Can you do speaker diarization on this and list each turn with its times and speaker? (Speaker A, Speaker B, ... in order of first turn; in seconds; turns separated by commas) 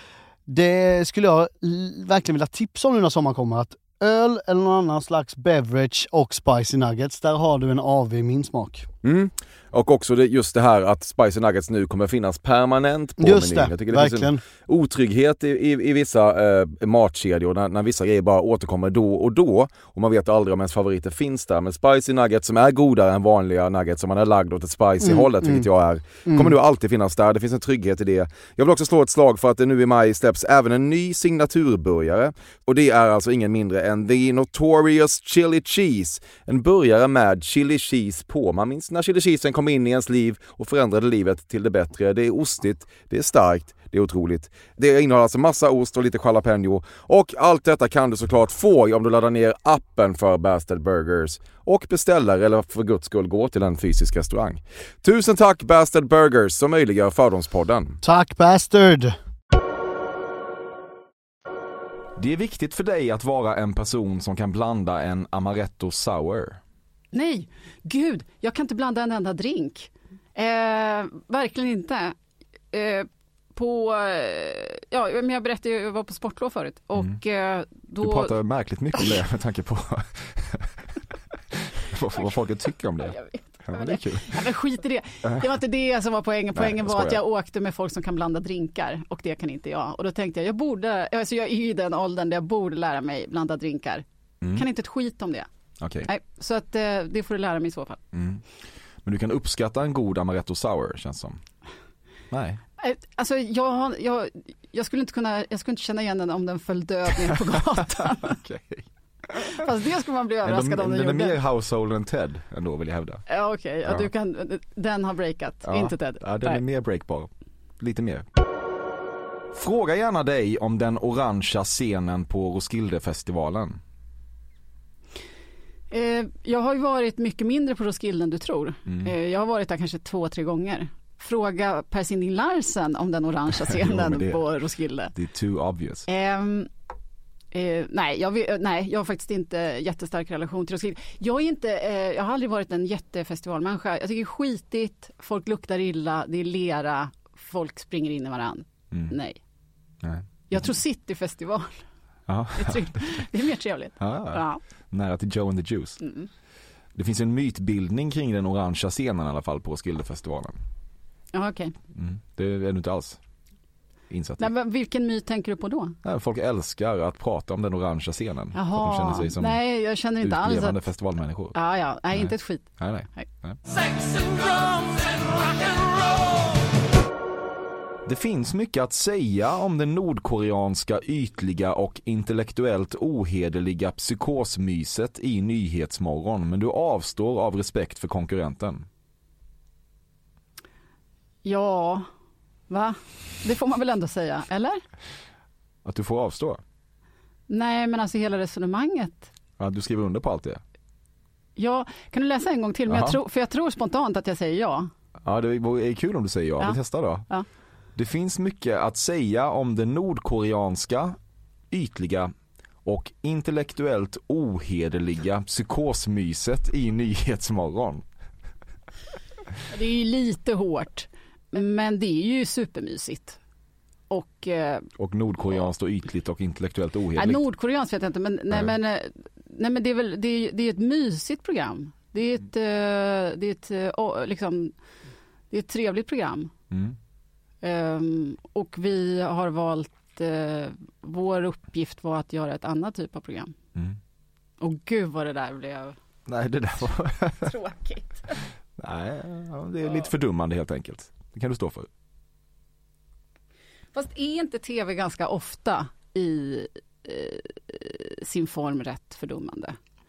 Speaker A: 0.5-8.9, Speaker B: 9.0-58.0, Speaker A: 13.2-14.4, Speaker A: 25.0-25.7, Speaker A: 26.2-26.6, Speaker A: 58.0-59.2, Speaker C: 62.2-66.6, Speaker D: 67.1-72.2, Speaker D: 72.7-78.3, Speaker C: 78.0-80.8, Speaker C: 81.5-84.4, Speaker D: 83.0-95.5, Speaker C: 86.5-87.2, Speaker C: 95.8-96.1, Speaker D: 96.0-98.0, Speaker C: 98.1-98.4, Speaker C: 99.0-101.4, Speaker C: 102.3-102.6, Speaker D: 102.8-108.4, Speaker C: 108.2-109.6, Speaker D: 109.5-111.4, Speaker C: 110.4-113.2, Speaker D: 113.3-116.6, Speaker C: 115.7-117.3, Speaker C: 117.8-118.2, Speaker C: 119.5-123.8, Speaker D: 125.9-135.1, Speaker C: 133.6-134.4, Speaker C: 135.2-136.1, Speaker D: 136.1-136.7, Speaker D: 137.5-149.4, Speaker C: 150.0-150.7, Speaker D: 150.5-151.8, Speaker C: 152.3-153.2, Speaker D: 152.6-154.6, Speaker C: 154.0-156.0, Speaker D: 156.0-156.3, Speaker C: 156.9-160.6, Speaker D: 161.3-161.8, Speaker C: 161.9-163.2, Speaker C: 164.1-164.5, Speaker D: 164.4-166.0, Speaker C: 166.0-169.6, Speaker D: 168.5-170.8, Speaker C: 170.2-171.6, Speaker D: 171.5-173.3, Speaker C: 172.1-173.6, Speaker E: 173.7-176.5, Speaker C: 178.1-188.9, Speaker D: 191.4-192.1, Speaker D: 192.7-194.8, Speaker C: 195.8-196.6, Speaker D: 197.5-199.3, Speaker C: 199.6-200.6, Speaker D: 201.6-204.9, Speaker C: 202.9-203.2, Speaker C: 205.2-207.3, Speaker D: 206.6-207.5, Speaker C: 207.9-211.2, Speaker C: 211.7-212.3, Speaker C: 212.8-218.0, Speaker D: 219.7-223.4, Speaker D: 224.1-224.9, Speaker C: 225.0-227.4, Speaker D: 227.2-234.7, Speaker D: 235.5-236.5, Speaker C: 236.7-237.0, Speaker D: 237.6-243.5, Speaker D: 244.6-246.0, Speaker C: 246.3-247.5, Speaker D: 247.4-248.4, Speaker C: 248.8-251.9, Speaker D: 253.9-259.8